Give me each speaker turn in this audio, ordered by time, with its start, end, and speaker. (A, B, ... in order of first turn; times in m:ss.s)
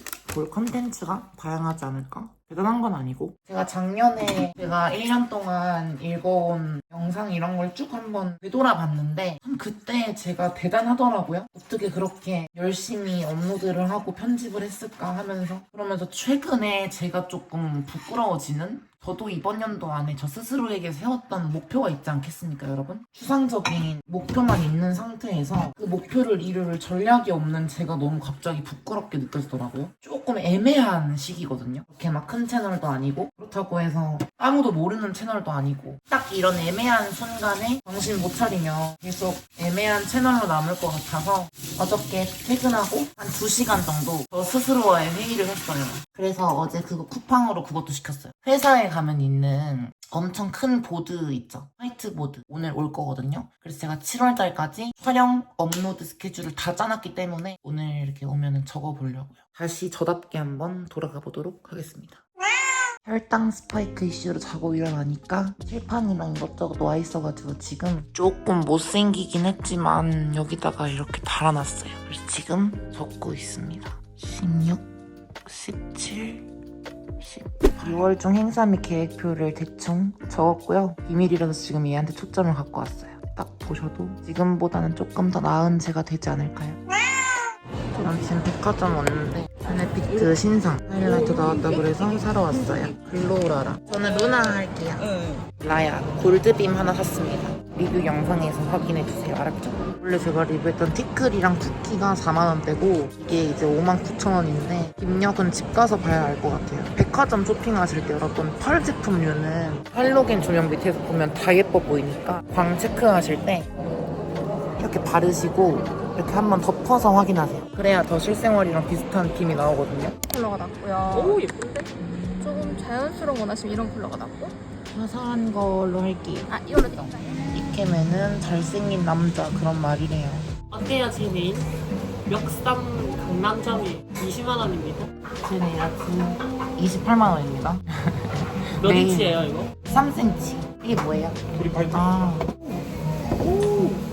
0:00.3-1:02.2 A
1:03.0-1:14.8 A
1:15.4-1:16.5 A
1:17.2-1:26.8 A
1:28.0-1:53.7 A
1:54.8-2:00.2 A
2:00.3-2:01.8 B
2:01.1-2:01.6 C
2:02.0-2:02.8 A
2:02.4-2:04.6 B
2:04.9-2:06.7 A
2:06.5-2:07.3 B
2:07.5-2:10.5 A
2:10.7-2:11.7 C
2:12.3-2:15.1 C
2:15.3-2:22.8 A
2:18.9-2:19.7 C